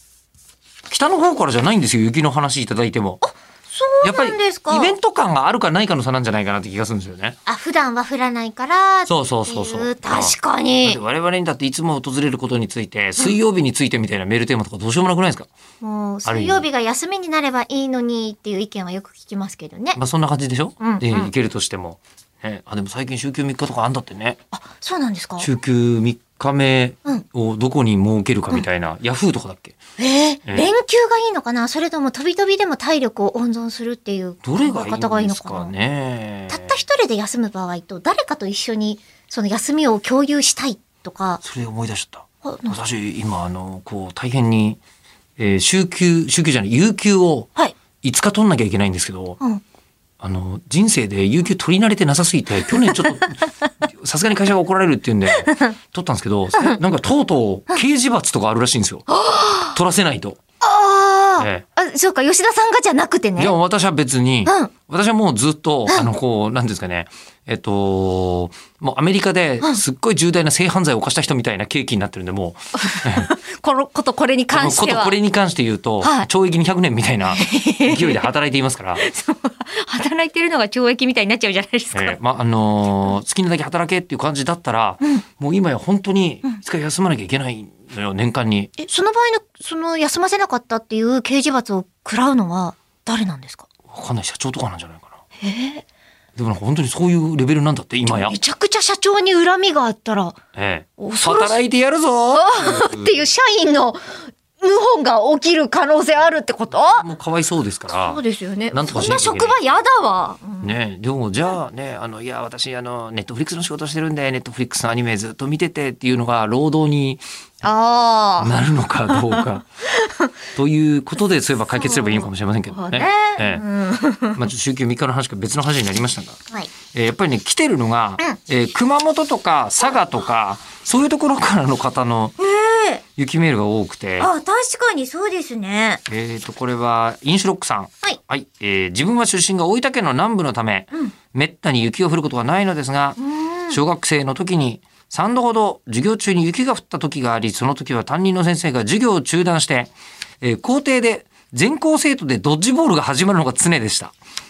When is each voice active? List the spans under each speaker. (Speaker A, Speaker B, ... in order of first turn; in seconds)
Speaker A: 0.9-3.2, 4.0-7.4, 9.1-15.5, 16.2-16.6, 20.0-24.4, 25.4-29.8, 34.4-36.7, 41.4-44.8, 45.4-47.5, 48.0-49.4, 50.2-59.1, 59.7-60.4, 61.4-61.6, 63.4-73.3, 74.5-79.0, 81.9-88.7, 93.9-95.2, 96.3-98.3, 100.5-103.1, 106.7-108.2, 108.7-109.6, 110.6-117.2, 118.4-119.7, 120.5-123.6, 124.4-126.4, 126.9-132.3, 133.2-134.3, 136.1-143.2, 143.7-154.1
Speaker B: 3.2-5.0, 7.5-11.0, 15.8-20.0, 20.8-21.3, 24.5-25.5, 30.0-35.7, 36.5-41.4, 42.4-42.8, 52.7-53.3, 55.4-55.8, 59.1-59.8, 60.6-63.5, 64.5-64.7, 72.8-75.2, 76.0-76.3, 77.3-78.3, 79.0-82.2, 88.8-93.7, 95.4-95.8, 98.1-100.4, 101.0-101.6, 102.3-107.0, 107.9-110.7, 117.6-118.5, 119.1-120.3, 121.7-124.5, 132.4-133.0, 134.2-136.0, 143.2-143.8